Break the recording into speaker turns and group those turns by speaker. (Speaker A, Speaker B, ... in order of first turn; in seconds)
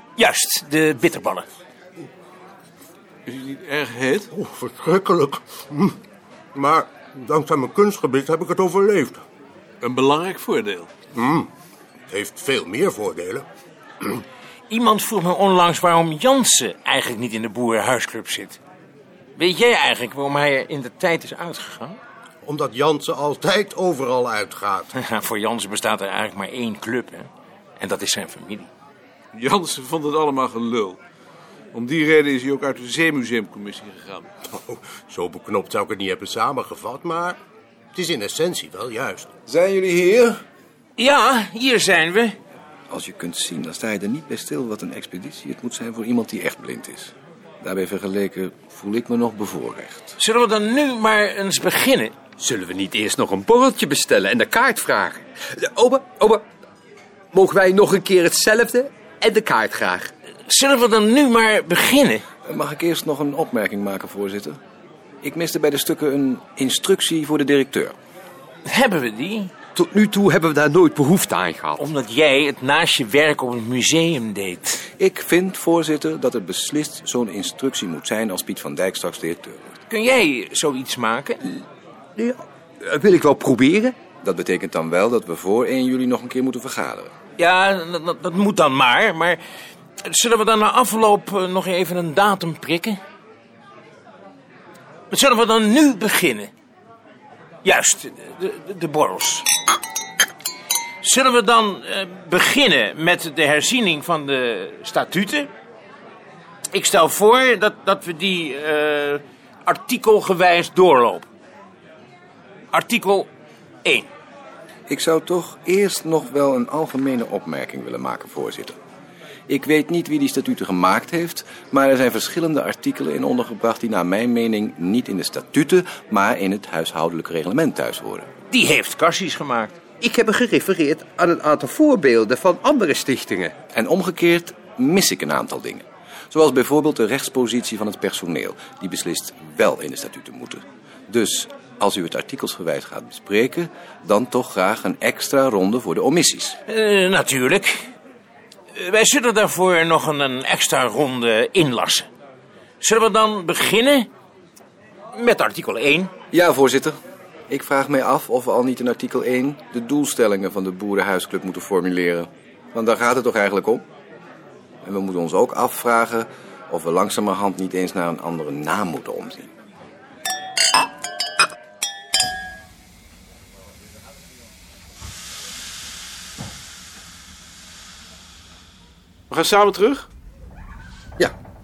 Speaker A: 0.2-1.5, 14.7-18.6, 19.4-22.0, 24.9-28.7, 41.0-42.4, 50.2-52.1, 60.5-62.2, 68.7-69.5, 71.8-74.8, 79.8-81.4, 87.4-89.4, 90.0-93.0, 95.1-96.5, 97.6-99.5, 101.0-105.5, 106.7-111.3, 112.7-113.3, 128.5-129.8, 146.7-147.9, 148.7-152.1, 152.8-154.1, 155.1-156.1
Speaker B: 3.3-4.3, 9.8-10.9, 29.3-31.0, 31.7-34.3, 179.3-180.1
Speaker C: 4.3-6.0, 6.5-9.2, 11.1-11.5, 12.1-13.4, 22.4-24.9, 34.5-37.4, 37.9-39.3
Speaker D: 39.5-40.4, 42.9-50.1, 62.4-64.6, 65.2-67.9, 74.9-79.7, 84.2-87.1, 114.9-118.8, 119.5-128.3, 133.7-146.6, 156.3-156.9, 157.5-163.8, 164.8-169.5
Speaker E: 52.4-56.4, 57.3-60.1, 69.7-71.8, 82.2-84.0, 130.0-133.5